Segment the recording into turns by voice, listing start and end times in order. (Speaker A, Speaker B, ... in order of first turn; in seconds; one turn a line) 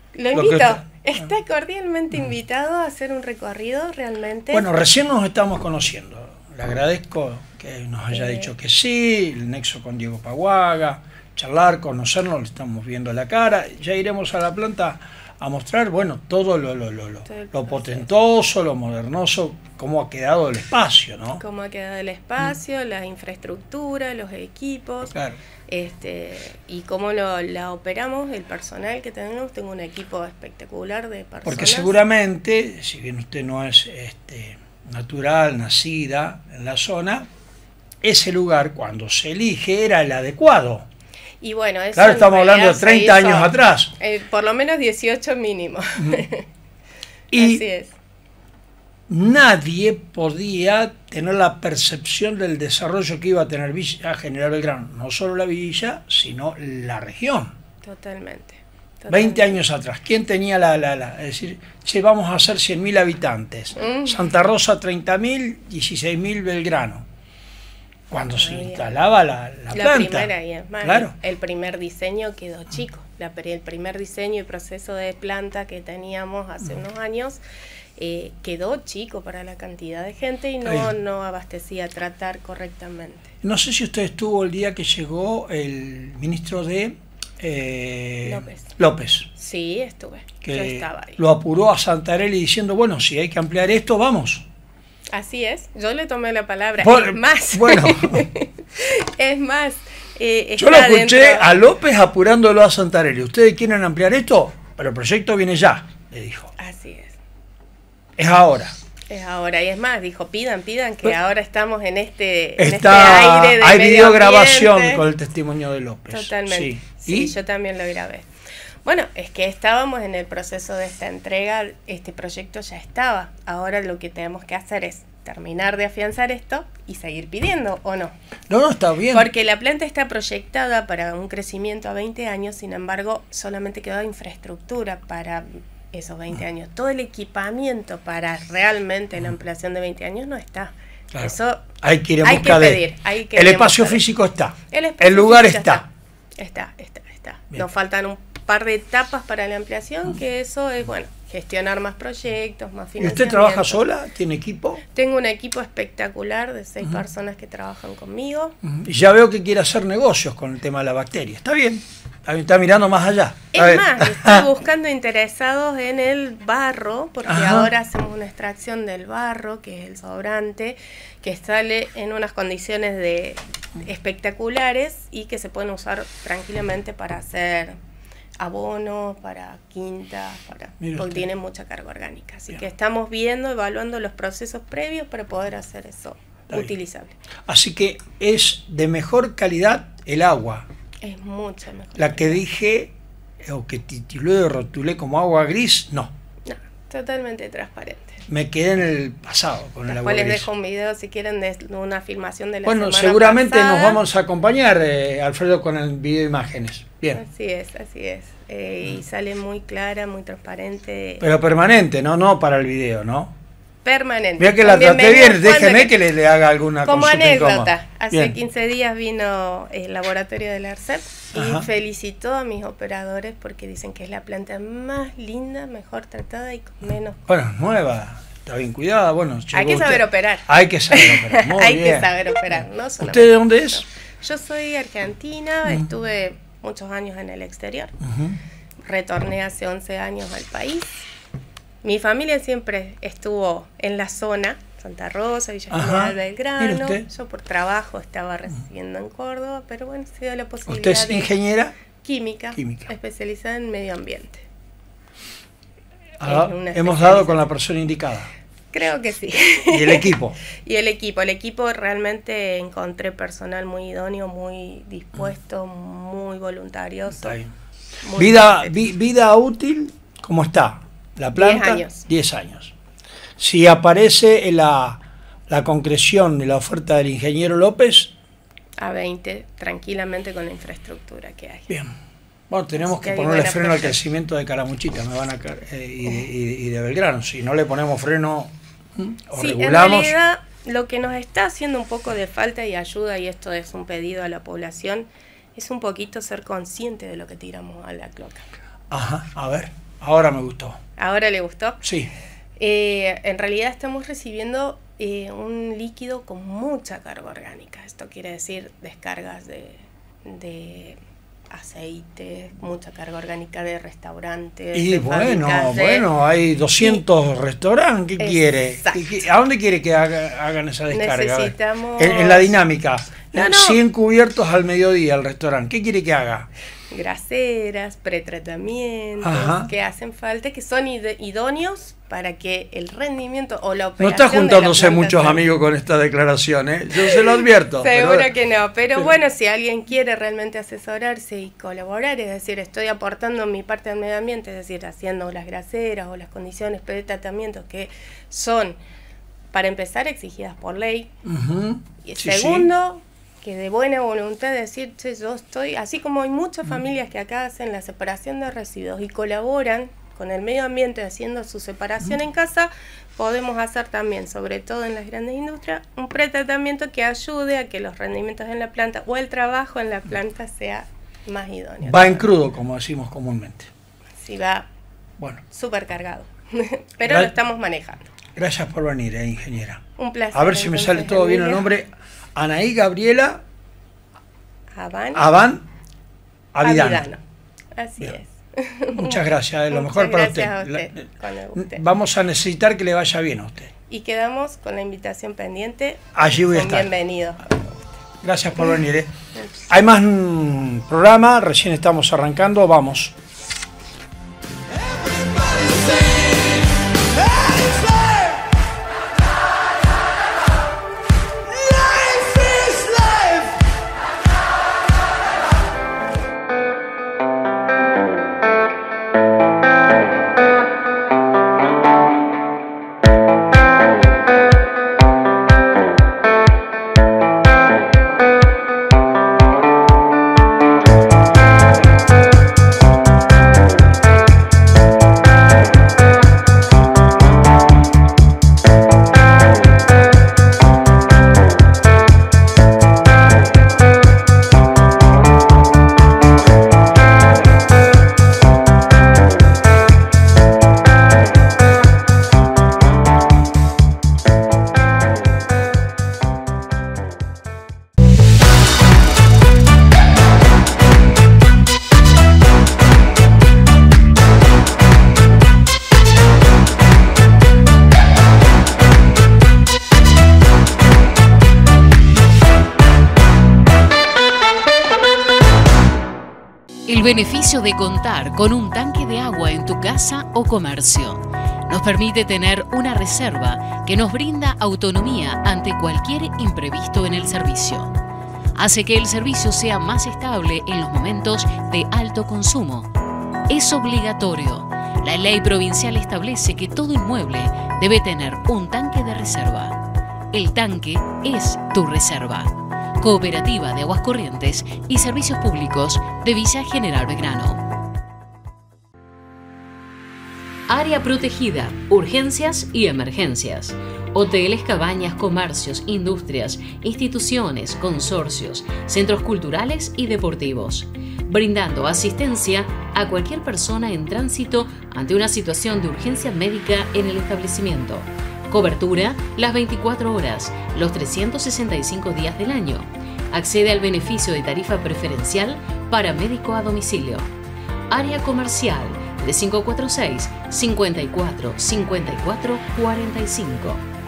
Speaker A: 0.2-4.7
Speaker B: 0.3-1.3
Speaker B: 4.5-21.4
Speaker A: 8.1-8.5
Speaker A: 17.3-18.1
Speaker A: 21.4-25.1
Speaker B: 25.1-25.4
Speaker A: 25.7-32.0
Speaker B: 31.4-37.3
Speaker B: 38.0-40.9
Speaker A: 41.4-46.5
Speaker B: 42.0-43.9
Speaker B: 46.0-46.3
Speaker B: 47.3-47.6
Speaker A: 47.4-47.9
Speaker B: 49.1-57.6
Speaker A: 57.8-59.6
Speaker B: 59.1-67.1
Speaker A: 63.8-64.3
Speaker B: 68.1-71.2
Speaker A: 68.3-68.9
Speaker A: 69.7-77.4
Speaker A: 78.0-83.3
Speaker B: 80.6-80.9
Speaker B: 83.4-89.3
Speaker A: 88.2-88.8
Speaker A: 89.3-91.2
Speaker B: 90.4-94.5
Speaker A: 95.1-101.6
Speaker B: 96.8-98.3
Speaker B: 100.6-106.5
Speaker A: 106.6-107.2
Speaker B: 108.2-108.8
Speaker A: 109.1-115.1
Speaker B: 112.6-117.3
Speaker A: 116.1-118.3
Speaker A: 118.8-128.1
Speaker B: 128.5-129.3
Speaker A: 129.1-144.0
Speaker B: 141.1-142.8
Speaker B: 143.3-145.9
Speaker A: 144.7-145.9
Speaker A: 146.4-153.8
Speaker B: 153.0-154.8
Speaker A: 154.9-158.6
Speaker B: 158.6-164.5
Speaker A: 163.5-177.8
Speaker B: 167.3-167.7
Speaker A: 178.4-187.2
Speaker B: 180.8-181.3
Speaker B: 187.5-190.7
Speaker A: 191.0-192.4
Speaker B: 192.0-196.1
Speaker A: 196.5-198.2
Speaker B: 198.3-200.5
Speaker A: 199.9-204.0
Speaker B: 202.7-207.2
Speaker A: 207.1-211.3
Speaker B: 211.2-213.3
Speaker A: 213.8-215.9
Speaker B: 214.4-218.4
Speaker A: 216.8-227.2
Speaker B: 221.3-221.7
Speaker B: 227.3-233.9
Speaker A: 229.5-238.0
Speaker B: 238.0-238.4
Speaker A: 238.8-241.0
Speaker A: 241.8-251.3
Speaker B: 245.7-247.1
Speaker B: 250.7-251.8
Speaker A: 252.0-254.5
Speaker B: 252.6-252.9
Speaker B: 256.2-258.3
Speaker A: 256.2-257.5
Speaker A: 258.7-267.4
Speaker B: 259.7-260.4
Speaker B: 267.1-267.5
Speaker A: 268.0-268.7
Speaker B: 268.2-272.8
Speaker A: 271.3-272.0
Speaker B: 273.4-278.1
Speaker A: 278.8-281.7
Speaker B: 281.7-281.9
Speaker B: 282.5-290.1
Speaker A: 282.8-284.0
Speaker A: 289.4-298.5
Speaker B: 298.9-300.8
Speaker A: 301.0-301.8
Speaker B: 301.8-302.1
Speaker A: 302.6-311.0
Speaker A: 311.5-316.1
Speaker B: 314.7-326.5
Speaker A: 316.8-317.0
Speaker A: 318.2-319.2
Speaker A: 320.9-322.6
Speaker A: 323.2-323.8
Speaker A: 326.9-335.5
Speaker B: 329.2-329.7
Speaker B: 334.0-338.3
Speaker A: 337.0-348.8
Speaker A: 349.5-351.1
Speaker B: 351.2-352.7
Speaker A: 352.0-372.3
Speaker B: 371.8-373.7
Speaker A: 374.2-374.7
Speaker A: 375.5-378.1
Speaker B: 377.0-377.3
Speaker B: 378.4-383.4
Speaker A: 380.0-381.7
Speaker A: 384.8-385.3
Speaker B: 385.1-385.7
Speaker B: 386.5-387.1
Speaker A: 386.6-387.2
Speaker A: 387.8-391.9
Speaker B: 389.0-391.0
Speaker B: 391.6-393.7
Speaker A: 393.9-397.8
Speaker B: 396.1-396.9
Speaker B: 398.2-399.1
Speaker A: 399.4-399.7
Speaker B: 399.7-403.1
Speaker C: 476.9-487.9
Speaker C: 488.6-492.9
Speaker C: 493.5-499.8
Speaker C: 500.3-507.6
Speaker C: 510.7-537.3
Speaker C: 537.9-543.8